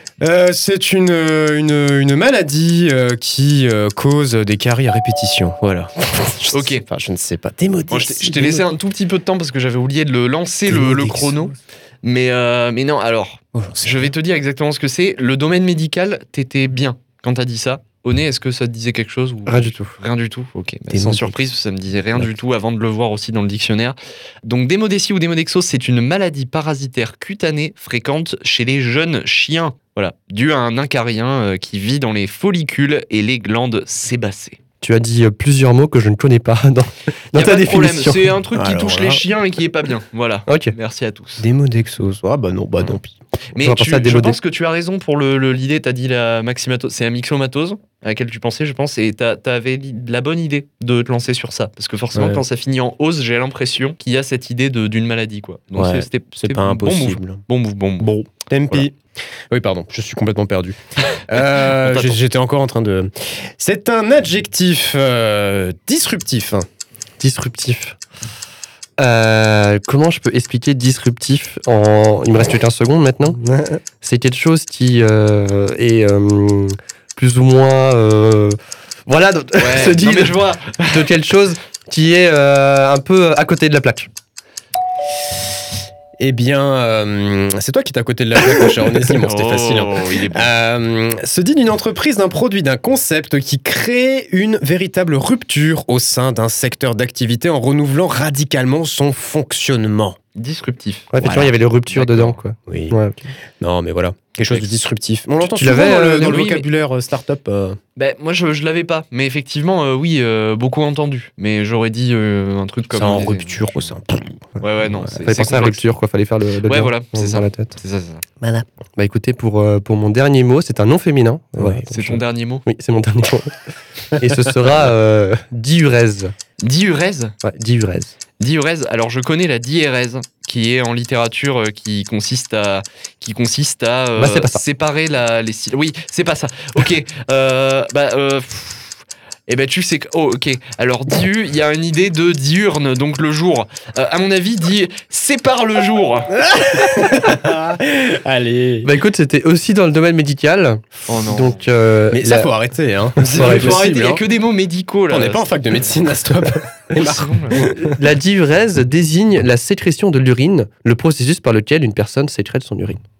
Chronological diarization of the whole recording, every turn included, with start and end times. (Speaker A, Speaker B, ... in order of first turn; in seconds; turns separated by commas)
Speaker A: 0.2-8.7, Speaker B: 6.5-6.8, Speaker B: 7.9-34.6, Speaker A: 10.7-11.5, Speaker A: 13.5-14.1, Speaker C: 19.4-19.9, Speaker A: 20.9-21.4, Speaker C: 34.8-38.4, Speaker B: 37.3-41.5, Speaker A: 38.5-39.2, Speaker C: 40.5-40.7, Speaker A: 41.4-43.1, Speaker B: 43.5-58.8, Speaker C: 43.6-44.4, Speaker A: 52.1-52.4, Speaker A: 55.7-57.4, Speaker A: 58.0-58.9, Speaker A: 59.5-66.7, Speaker B: 61.6-62.2, Speaker C: 67.2-68.0, Speaker C: 69.0-84.1, Speaker B: 79.6-81.1, Speaker A: 86.2-100.2, Speaker B: 89.2-90.5, Speaker B: 100.3-102.4, Speaker C: 101.1-103.2, Speaker A: 101.2-101.5, Speaker A: 102.7-103.0, Speaker A: 103.6-107.8, Speaker C: 105.4-106.5, Speaker B: 106.0-106.7, Speaker B: 108.0-113.8, Speaker A: 112.9-115.1, Speaker B: 114.6-115.9, Speaker C: 115.1-117.8, Speaker B: 116.6-118.2, Speaker C: 119.0-123.5, Speaker A: 121.6-121.8, Speaker B: 121.9-122.7, Speaker C: 124.1-126.3, Speaker B: 126.6-127.3, Speaker C: 127.4-128.1, Speaker B: 128.4-146.3, Speaker C: 134.2-134.6, Speaker A: 146.3-148.9, Speaker C: 148.8-152.5, Speaker B: 151.1-151.6, Speaker A: 152.1-154.2, Speaker C: 153.2-154.0, Speaker B: 153.2-155.6, Speaker A: 155.1-157.9, Speaker B: 156.9-157.7, Speaker C: 157.8-163.0